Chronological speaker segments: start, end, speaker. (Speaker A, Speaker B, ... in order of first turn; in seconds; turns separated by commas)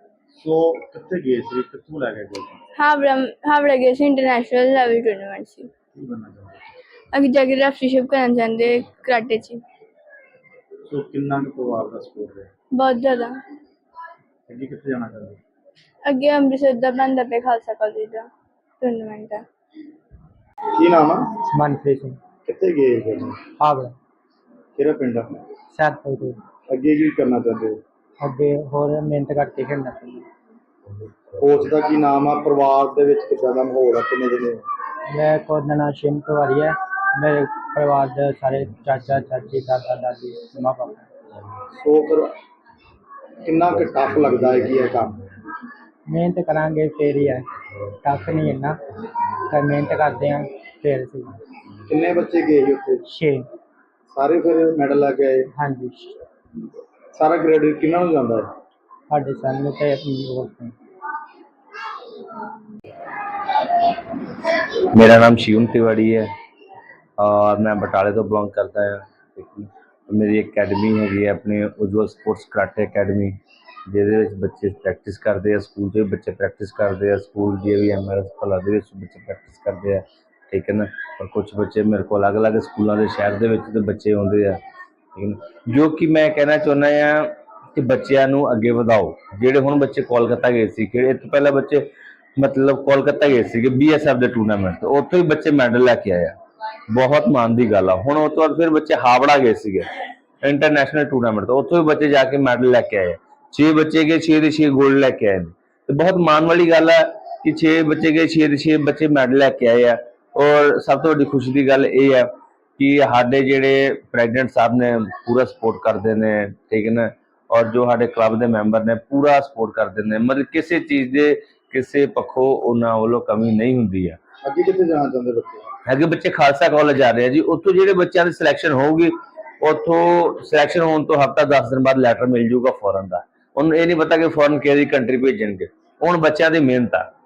Speaker A: 0.3-2.6, Speaker B: 2.8-5.7, Speaker A: 5.9-6.6, Speaker B: 7.1-9.6, Speaker A: 10.9-12.5, Speaker B: 12.8-13.3, Speaker A: 14.5-15.4, Speaker B: 16.1-18.3, Speaker B: 18.8-19.4, Speaker A: 20.8-21.3, Speaker C: 21.5-22.2, Speaker A: 22.4-23.4, Speaker C: 23.6-23.9, Speaker A: 24.8-25.4, Speaker C: 25.7-26.4, Speaker A: 26.7-27.8, Speaker C: 28.2-30.2, Speaker A: 31.4-34.6, Speaker C: 35.1-41.1, Speaker A: 41.7-42.3, Speaker A: 43.4-45.2, Speaker C: 46.1-47.4, Speaker C: 48.0-48.8, Speaker C: 49.5-51.3, Speaker A: 51.9-53.0, Speaker C: 53.1-53.4, Speaker A: 54.1-55.5, Speaker C: 55.6-56.1, Speaker A: 57.1-58.5, Speaker C: 59.1-60.7, Speaker D: 64.9-66.2, Speaker D: 67.2-73.4, Speaker D: 73.9-84.6, Speaker D: 85.1-91.8, Speaker D: 92.4-96.3, Speaker D: 96.9-99.9, Speaker D: 100.4-124.2, Speaker A: 124.4-125.7, Speaker D: 125.8-137.0